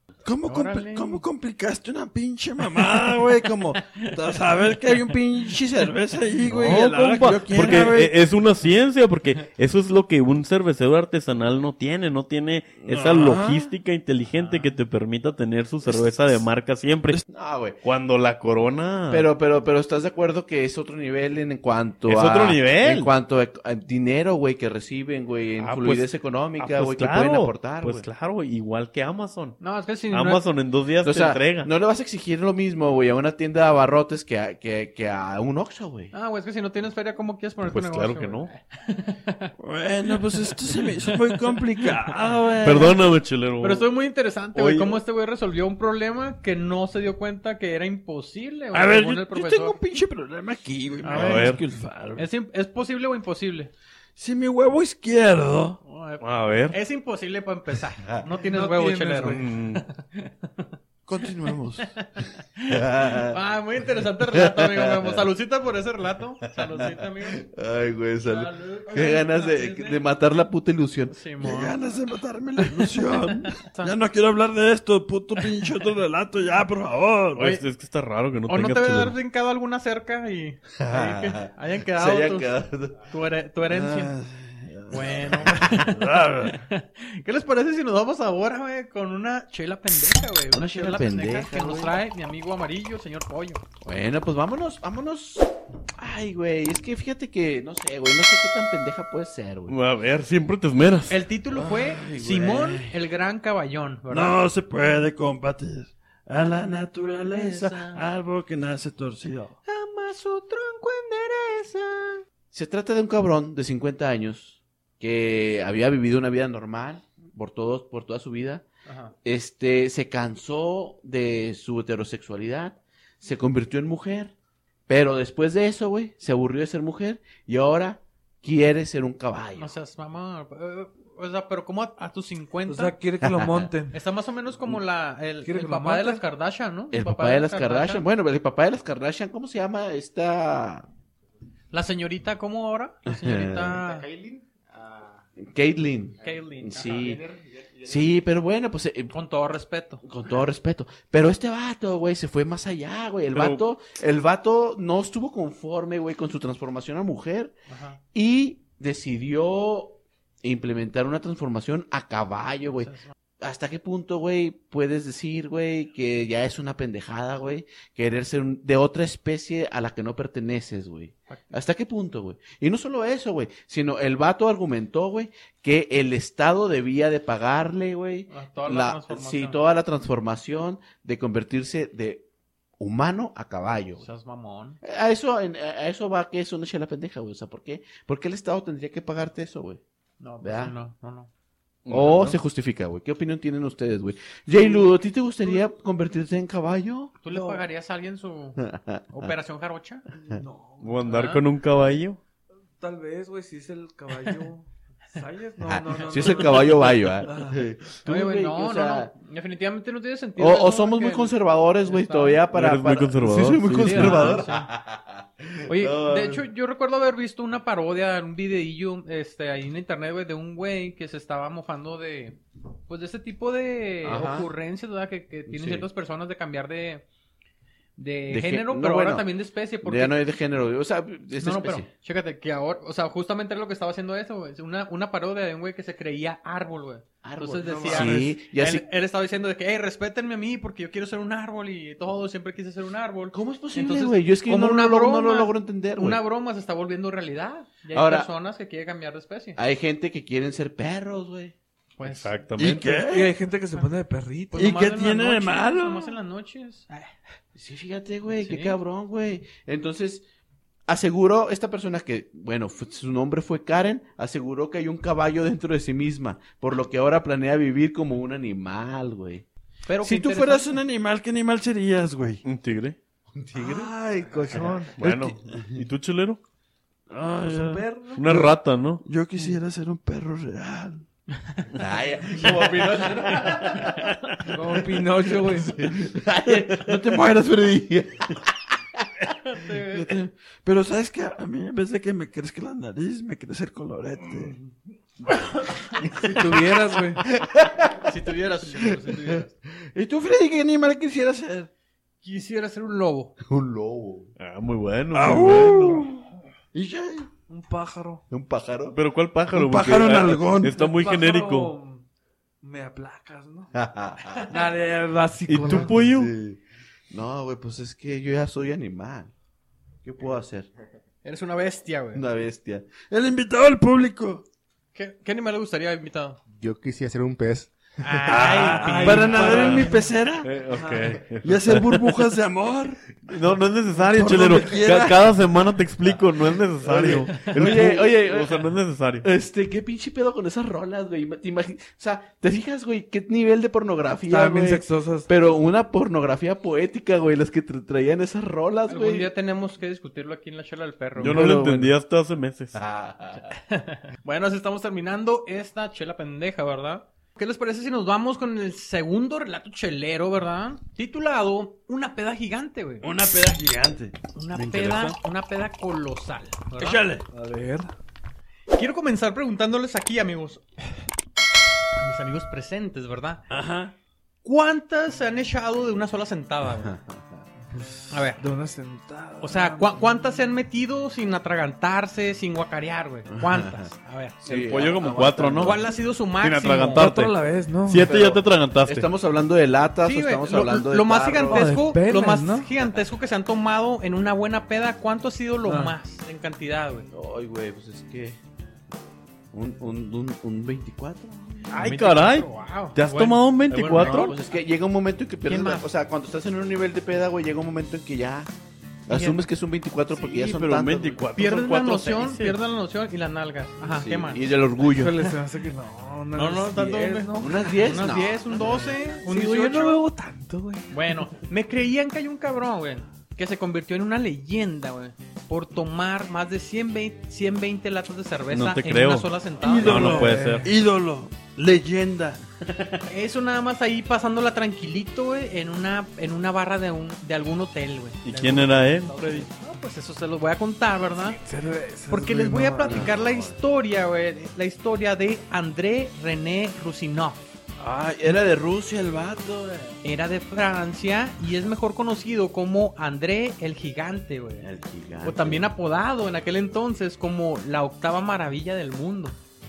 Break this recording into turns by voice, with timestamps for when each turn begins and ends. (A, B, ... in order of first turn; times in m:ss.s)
0:00.2-0:08.1 A
0:00.5-0:01.2 B
0:02.8-0:03.2 B
0:03.8-0:05.2 B
0:06.5-0:17.2 C
0:12.8-0:13.7 A
0:14.4-0:14.7 B
0:17.3-0:17.8 D
0:17.8-0:19.3 C
0:19.1-0:28.1 D
0:22.1-0:23.1 C
0:25.6-0:29.6 C
0:29.6-0:30.4 B
0:30.1-0:31.7 C
0:31.0-0:36.1 D
0:36.1-0:39.5 B
0:37.6-0:38.5 C
0:39.6-0:43.0 A
0:40.1-0:42.2 B
0:42.6-0:43.9 C
0:43.6-0:49.8 B
0:44.5-0:45.0 C
0:48.7-0:52.3 A
0:51.0-0:51.6 B
0:51.1-0:51.6 C
0:52.2-0:53.7 B
0:54.2-0:55.8 A
0:55.8-1:00.7 B
0:56.2-0:56.8 C
0:58.5-0:59.4 E
0:59.2-0:59.8 C
1:01.1-1:01.9 A
1:01.8-1:07.4 B
1:02.7-1:03.4 D
1:04.3-1:05.2 D
1:06.5-1:11.1 D
1:08.2-1:10.0 B
1:11.1-1:11.8 B
1:11.4-1:17.4 A
1:13.4-1:13.9 B
1:17.4-1:19.2 C
1:18.5-1:22.6 B
1:20.7-1:23.0 D
1:23.1-1:24.1 B
1:23.7-1:26.6 A
1:24.9-1:33.6 B
1:30.5-1:32.0 D
1:33.8-1:39.7 D
1:39.7-1:41.2 C
1:41.1-1:44.4 B
1:41.5-1:42.8 A
1:44.1-1:49.6 A
1:47.3-1:48.0 D
1:49.6-1:52.2 B
1:52.5-1:58.7 D
1:58.8-1:59.1 B
1:59.2-2:04.3 D
2:04.9-2:09.7 D
2:09.6-2:13.0 B
2:12.7-2:14.0 E
2:13.2-2:13.7 D
2:13.9-2:18.0 B
2:15.4-2:16.2 E
2:16.9-2:20.9 D
2:21.7-2:24.0 B
2:23.1-2:23.7 D
2:23.6-2:25.3 F
2:25.4-2:27.2 D
2:26.2-2:27.2 B
2:27.0-2:28.2 F
2:27.8-2:29.1 D
2:29.1-2:30.0 B
2:30.0-2:37.6 D
2:33.3-2:33.6 C
2:37.7-2:38.0 B
2:38.1-3:02.2 D
2:42.7-2:43.1 B
2:51.3-2:51.5 B
2:58.3-2:59.6 B
3:02.8-3:04.1 D
3:04.0-3:04.8 B
3:04.8-3:09.8 D
3:10.2-3:11.3 B
3:10.4-3:10.8 D
3:11.8-3:12.4 C
3:11.9-3:17.1 D
3:17.2-3:18.6 B
3:17.3-3:17.6 E
3:18.6-3:19.3 D
3:19.1-3:20.0 B
3:20.2-3:21.2 E
3:20.8-3:22.2 C
3:21.1-3:21.4 B
3:22.8-3:27.6 E
3:25.6-3:29.1 D
3:26.1-3:26.4 B
3:28.0-3:32.4 B
3:30.4-3:36.4 D
3:32.5-3:34.4 C
3:33.2-3:34.4 A
3:33.8-3:34.7 B
3:35.7-3:47.1 B
3:44.0-3:44.5 D
3:45.5-3:45.9 D
3:48.0-3:50.2 B
3:48.3-3:49.3 D
3:49.8-3:51.9 D
3:51.4-4:09.6 B
3:57.2-3:58.8 D
3:57.7-3:58.3 E
4:03.3-4:06.2 D
4:07.9-4:08.3 D
4:09.6-4:11.6 D
4:12.0-4:12.4 B
4:12.0-4:12.9 C
4:12.6-4:13.4 A
4:12.8-4:14.7 E
4:14.5-4:17.1 B
4:14.5-4:16.2 A
4:17.6-4:20.3 D
4:18.4-4:18.8 B
4:20.9-4:29.5 D
4:29.9-4:30.7 B
4:30.0-4:32.4 A
4:32.4-4:33.0 C
4:33.4-4:33.9 D
4:33.6-4:35.0 E
4:34.5-4:35.6 A
4:35.0-4:36.4 C
4:37.1-4:41.0 A
4:37.4-4:38.2 E
4:38.1-4:39.0 C
4:41.7-4:48.4 D
4:44.4-4:45.8 E
4:46.7-4:47.3 A
4:49.4-4:50.2 B
4:49.9-4:54.6 A
4:56.1-4:57.2 E
4:57.2-4:58.1 D
4:58.0-4:59.5 B
4:59.9-5:01.7 A
5:02.2-5:03.3 B
5:03.4-5:04.3 D
5:04.4-5:06.0 C
5:05.1-5:06.2 A
5:06.7-5:07.3 A
5:07.5-5:08.2 E
5:08.3-5:09.0 D
5:08.9-5:11.7 C
5:09.5-5:10.7 A
5:10.6-5:12.0 E
5:12.6-5:13.7 E
5:13.7-5:14.4 D
5:14.5-5:16.0 E
5:15.5-5:16.3 C
5:15.7-5:19.3 D
5:20.0-5:20.7 D
5:21.2-5:22.2 B
5:22.1-5:22.9 D
5:23.0-5:24.4 A
5:24.9-5:26.4 B
5:26.5-5:27.8 F
5:28.0-5:29.9 B
5:28.3-5:30.6 A
5:28.8-5:30.0 E
5:29.0-5:32.2 C
5:31.4-5:33.0 A
5:33.3-5:39.3 C
5:34.1-5:35.2 A
5:36.8-5:38.7 D
5:39.2-5:49.3 D
5:44.3-5:45.3 E
5:48.9-5:51.4 B
5:51.2-5:51.9 D
5:51.2-5:52.8 C
5:52.8-5:53.5 D
5:53.7-6:03.1 B
6:03.0-6:05.2 A
6:04.4-6:07.0 B
6:06.8-6:07.3 A
6:07.3-6:07.9 E
6:08.7-6:10.6 B
6:12.0-6:13.4 B
6:13.5-6:13.9 A
6:14.4-6:17.0 B
6:16.7-6:17.4 D
6:17.7-6:19.9 E
6:18.1-6:18.4 B
6:19.4-6:24.4 B
6:23.3-6:23.9 D
6:24.4-6:25.9 D
6:24.5-6:25.8 C
6:25.6-6:27.1 B
6:26.4-6:27.3 C
6:27.0-6:28.1 E
6:27.8-6:29.1 C
6:28.1-6:31.8 D
6:30.0-6:37.1 B
6:31.5-6:32.7 E
6:35.6-6:36.0 E
6:37.1-6:38.4 D
6:39.5-6:41.8 D
6:41.7-6:44.4 C
6:41.7-6:44.6 B
6:43.9-6:48.5 D
6:45.5-6:45.8 B
6:49.1-6:51.2 D
6:49.1-6:49.4 B
6:50.2-6:52.6 C
6:51.3-6:54.5 B
6:53.8-6:55.2 D
6:54.8-6:58.0 E
6:56.4-7:00.0 B
6:57.4-6:58.5 D
6:58.6-7:01.4 E
7:00.9-7:10.2 B
7:08.5-7:10.7 C
7:09.6-7:12.4 A
7:09.8-7:10.7 E
7:13.1-7:21.4 B
7:18.2-7:19.5 C
7:21.3-7:23.0 E
7:22.1-7:27.4 B
7:22.8-7:23.6 D
7:27.8-7:29.6 A
7:28.5-7:30.0 D
7:30.0-7:34.7 B
7:34.6-7:35.7 D
7:35.2-7:39.4 B